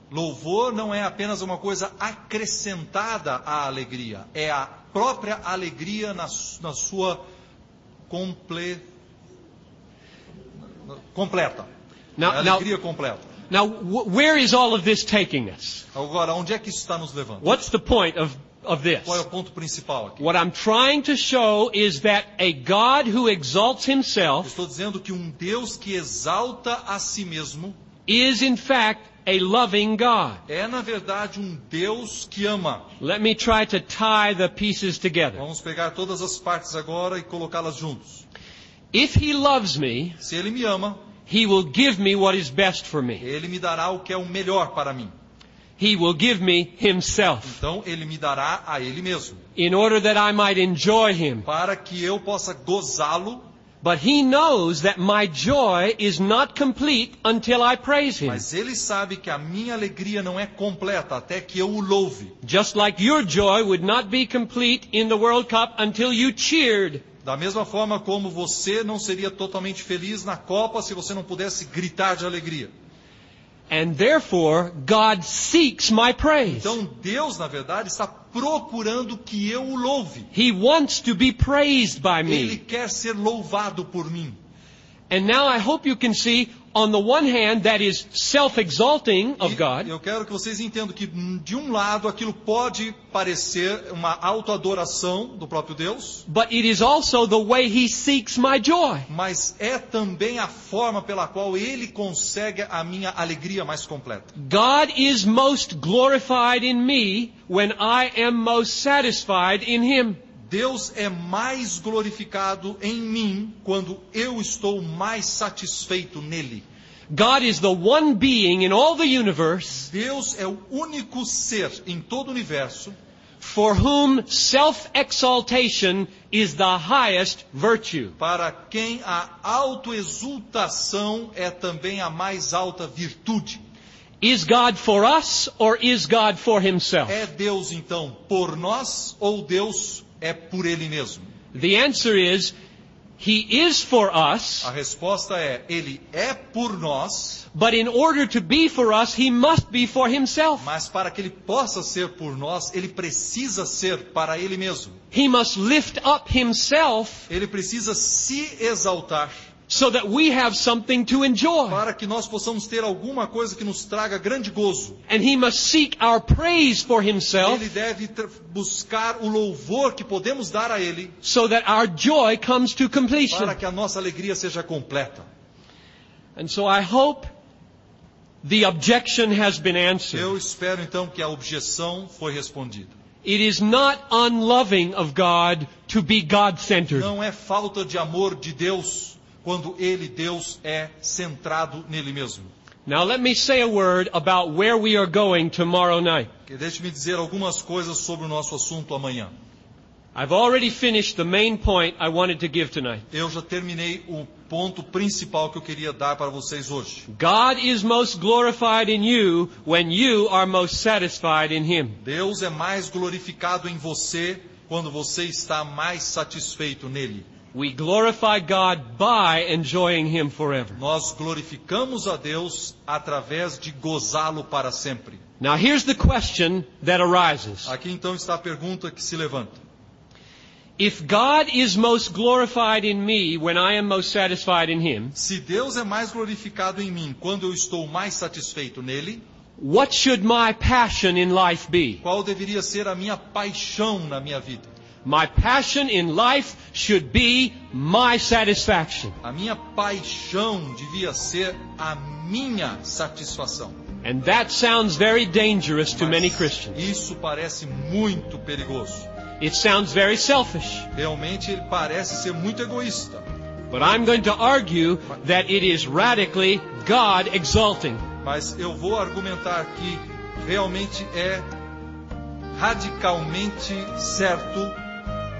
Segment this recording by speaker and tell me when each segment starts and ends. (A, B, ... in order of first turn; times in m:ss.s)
0:00.1-0:07.2 A
0:08.1-0:08.8 A
0:10.8-0:11.7 A
0:12.2-0:12.6 B
0:12.2-0:13.3 A
0:13.5-0:15.8 B
0:15.9-0:17.6 A
0:17.4-0:19.2 B
0:19.0-0:20.2 A
0:20.2-0:24.5 B
0:24.4-0:27.8 A
0:28.1-0:30.4 B
0:30.5-0:32.9 A
0:33.0-0:35.4 B
0:35.4-0:38.2 A
0:38.9-0:40.2 B
0:40.2-0:41.0 A
0:41.2-0:43.2 B
0:43.2-0:45.1 A
0:45.8-0:47.6 B
0:47.4-0:49.4 A
0:49.6-0:51.5 B
0:51.4-0:53.4 A
0:53.8-0:58.4 B
0:58.2-1:02.4 A
1:02.4-1:07.0 B
1:07.2-1:12.7 A
1:13.7-1:16.8 B
1:16.4-1:20.3 A
1:20.3-1:22.6 B
1:22.2-1:24.4 A
1:25.1-1:29.9 B
1:29.4-1:36.2 A
1:36.3-1:39.1 B
1:39.1-1:44.3 A
1:44.4-1:50.2 B
1:50.4-1:56.6 A
1:57.1-1:59.9 B
1:59.8-2:03.0 A
2:03.4-2:08.1 B
2:08.2-2:13.6 A
2:14.2-2:17.2 B
2:17.1-2:21.3 A
2:21.5-2:22.5 B
2:23.2-2:24.7 B
2:24.6-2:27.4 A
2:27.5-2:30.7 B
2:30.6-2:35.0 A
2:35.1-2:37.3 B
2:37.3-2:39.3 A
2:39.7-2:41.8 B
2:41.7-2:45.0 A
2:45.1-2:47.7 B
2:47.4-2:51.2 A
2:51.2-2:53.6 B
2:53.3-2:55.3 A
2:56.4-2:57.3 B
2:58.4-3:00.3 B
3:00.1-3:02.9 A
3:03.2-3:07.1 B
3:06.9-3:12.5 A
3:12.8-3:16.3 B
3:16.5-3:19.3 A
3:20.1-3:23.0 B
3:23.1-3:27.1 A
3:27.1-3:32.0 B
3:32.0-3:37.3 A
3:37.5-3:40.8 B
3:40.8-3:45.2 A
3:45.4-3:47.7 B
3:47.6-3:49.6 A
3:50.8-3:55.1 B
3:55.1-3:59.2 A
3:59.6-4:02.0 B
4:02.0-4:04.7 A
4:05.0-4:09.2 B
4:09.2-4:13.8 A
4:14.0-4:16.9 B
4:16.0-4:19.1 A
4:19.4-4:20.9 B
4:20.9-4:23.2 A
4:23.7-4:28.0 B
4:28.2-4:31.5 A
4:32.6-4:34.8 A